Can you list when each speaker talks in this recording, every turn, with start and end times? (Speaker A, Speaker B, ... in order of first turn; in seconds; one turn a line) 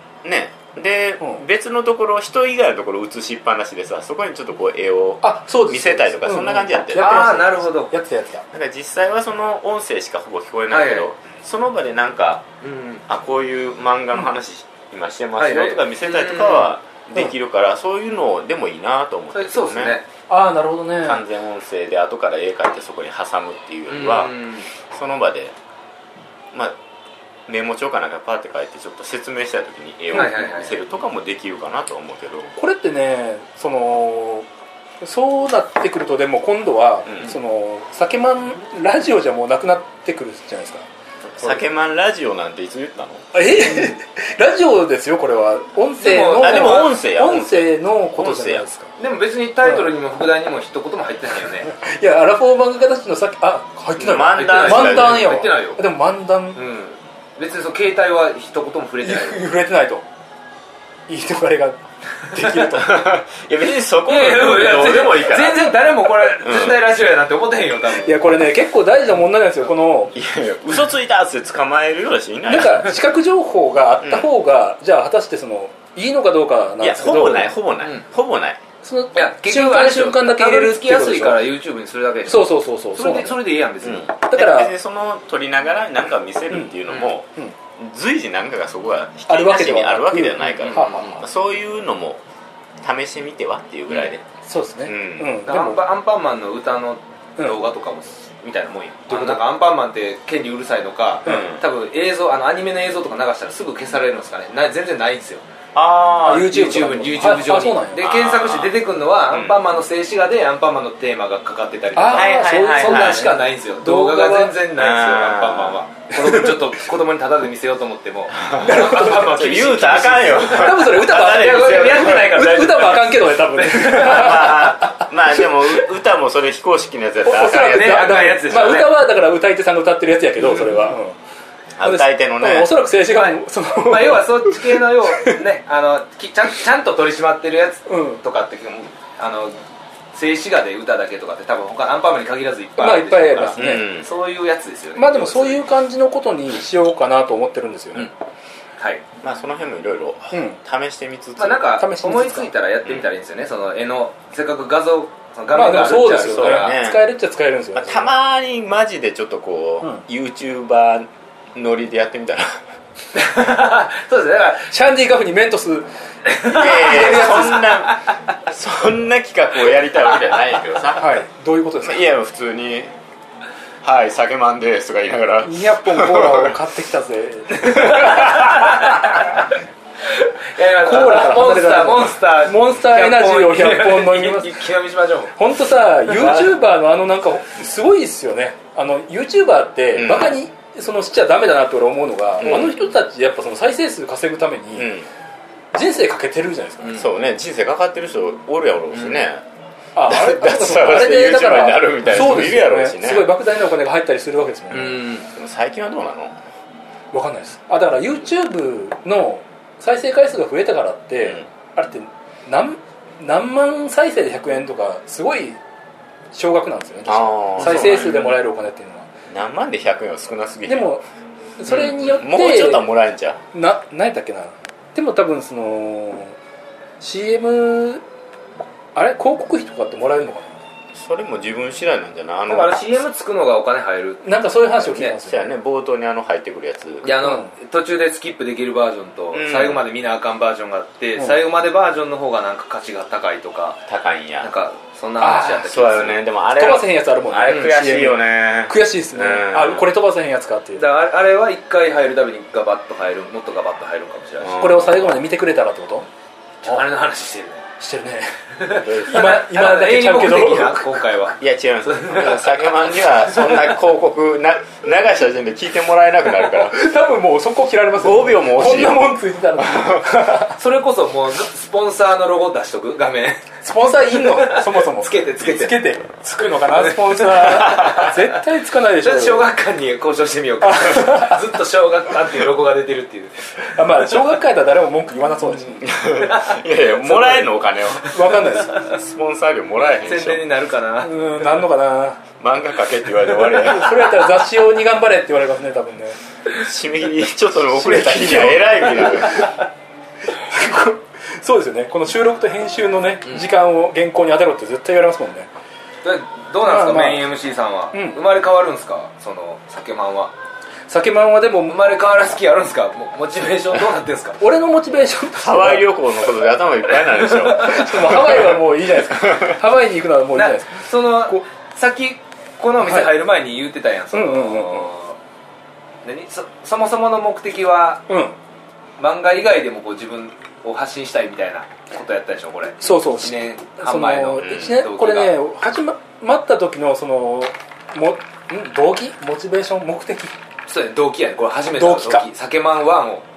Speaker A: 0.2-7.4
Speaker B: 5.2-8.4
Speaker C: 7.0-7.9
Speaker A: 8.5-12.4
Speaker C: 10.7-11.1
Speaker C: 12.6-13.0
Speaker A: 13.1-20.0
Speaker C: 15.4-16.8
Speaker C: 19.3-20.0
Speaker B: 20.3-21.2
Speaker A: 21.0-25.5
Speaker C: 23.9-24.7
Speaker A: 27.5-32.5
Speaker C: 30.1-30.7
Speaker B: 32.5-34.5
Speaker B: 35.0-40.9
Speaker A: 37.1-37.3
Speaker A: 41.3-43.3
Speaker B: 43.3-48.9
Speaker C: 46.0-47.0
Speaker A: 46.4-48.6
Speaker C: 49.0-51.7
Speaker B: 49.6-49.9
Speaker B: 51.7-56.6
Speaker A: 54.0-55.4
Speaker C: 54.3-55.8
Speaker C: 56.5-59.5
Speaker B: 59.0-60.0
Speaker B: 61.1-63.1
Speaker A: 62.6-65.7
Speaker C: 64.1-68.2
Speaker A: 66.4-66.8
Speaker B: 68.0-70.1
Speaker A: 70.1-73.0
Speaker B: 72.5-77.5
Speaker A: 74.0-74.3
Speaker A: 76.8-78.6
Speaker B: 78.8-81.5
Speaker C: 79.1-84.2
Speaker B: 82.3-83.4
Speaker A: 83.8-92.2
Speaker B: 84.3-84.7
Speaker B: 89.3-91.2
Speaker C: 90.5-91.2
Speaker A: 92.8-94.2
Speaker B: 94.4-95.8
Speaker A: 94.8-95.4
Speaker C: 95.5-105.4
Speaker B: 99.1-99.4
Speaker A: 101.2-101.6
Speaker A: 105.7-106.6
Speaker B: 106.2-108.0
Speaker C: 106.3-124.7
Speaker A: 108.0-108.8
Speaker A: 109.3-109.6
Speaker B: 111.9-114.5
Speaker A: 112.1-113.4
Speaker A: 114.7-115.8
Speaker B: 116.1-116.7
Speaker A: 118.4-122.7
Speaker B: 118.6-119.3
Speaker B: 120.5-125.4
Speaker A: 123.8-128.4
Speaker B: 127.2-131.1
Speaker C: 127.5-129.0
Speaker A: 131.8-132.8
Speaker B: 131.8-135.4
Speaker C: 133.1-139.6
Speaker B: 137.9-138.2
Speaker C: 140.1-145.6
Speaker B: 142.8-143.8
Speaker A: 143.6-144.1
Speaker B: 144.9-148.1
Speaker A: 149.2-151.7
Speaker B: 150.3-150.6
Speaker C: 151.4-156.8
Speaker B: 151.8-152.5
Speaker B: 155.5-158.1
Speaker A: 156.1-157.0
Speaker A: 157.7-162.6
Speaker C: 163.1-164.7
Speaker B: 164.7-165.9
Speaker C: 166.3-168.1
Speaker B: 166.4-167.6
Speaker A: 166.5-171.2
Speaker B: 171.0-172.1
Speaker A: 171.8-172.9
Speaker A: 173.8-176.5
Speaker B: 175.4-178.5
Speaker C: 177.6-179.5
Speaker C: 180.1-185.3
Speaker B: 180.8-184.6
Speaker B: 185.3-194.9
Speaker A: 189.9-190.3
Speaker A: 192.4-192.8
Speaker A: 194.8-195.1
Speaker B: 195.7-197.0
Speaker A: 196.9-199.4
Speaker C: 198.9-199.2
Speaker B: 199.9-205.0
Speaker A: 200.1-203.3
Speaker C: 204.7-205.3
Speaker A: 205.3-206.4
Speaker B: 207.1-215.6
Speaker B: 216.3-219.1
Speaker A: 217.1-218.4
Speaker A: 219.3-220.9
Speaker B: 220.7-221.0
Speaker B: 221.6-222.9
Speaker A: 221.7-223.4
Speaker B: 223.5-226.3
Speaker B: 227.0-228.0
Speaker B: 228.9-230.6
Speaker A: 230.9-232.8
Speaker C: 232.5-234.2
Speaker B: 234.2-235.5
Speaker A: 234.9-237.2
Speaker C: 237.0-243.8
Speaker B: 237.2-237.5
Speaker A: 239.3-239.8
Speaker A: 243.9-244.5
Speaker C: 244.4-246.2
Speaker B: 245.2-245.7
Speaker A: 245.6-249.9
Speaker B: 246.5-250.8
Speaker C: 247.5-247.7
Speaker C: 250.8-254.7
Speaker A: 254.4-255.1
Speaker B: 254.6-256.1
Speaker C: 256.6-257.6
Speaker B: 257.8-260.8
Speaker C: 258.6-263.6
Speaker A: 258.8-259.3
Speaker A: 261.4-266.8
Speaker B: 266.5-270.6
Speaker A: 268.0-269.1
Speaker A: 269.6-270.0
Speaker C: 270.6-273.4
Speaker B: 273.6-279.5
Speaker C: 274.1-275.8
Speaker C: 276.5-278.4
Speaker C: 279.0-283.5
Speaker B: 280.6-281.4
Speaker B: 283.7-286.0
Speaker A: 285.8-288.2
Speaker C: 286.2-286.6
Speaker B: 288.0-288.9
Speaker A: 288.7-290.4
Speaker C: 290.0-291.5
Speaker B: 291.0-292.2
Speaker A: 292.4-294.1
Speaker B: 293.5-296.2
Speaker A: 296.5-299.5
Speaker B: 297.7-299.6
Speaker B: 300.3-305.5
Speaker C: 306.0-310.3
Speaker B: 306.6-307.3
Speaker B: 307.9-308.2
Speaker B: 310.9-311.9
Speaker C: 311.7-314.4
Speaker B: 314.4-315.9
Speaker A: 315.4-318.6
Speaker B: 317.4-321.4
Speaker A: 319.1-319.6
Speaker C: 320.3-325.1
Speaker B: 322.8-323.1
Speaker B: 324.1-324.9
Speaker C: 326.0-328.1
Speaker B: 328.1-328.3
Speaker C: 329.0-335.3
Speaker B: 332.8-340.3
Speaker A: 334.4-334.7
Speaker C: 340.7-343.2
Speaker B: 341.8-342.2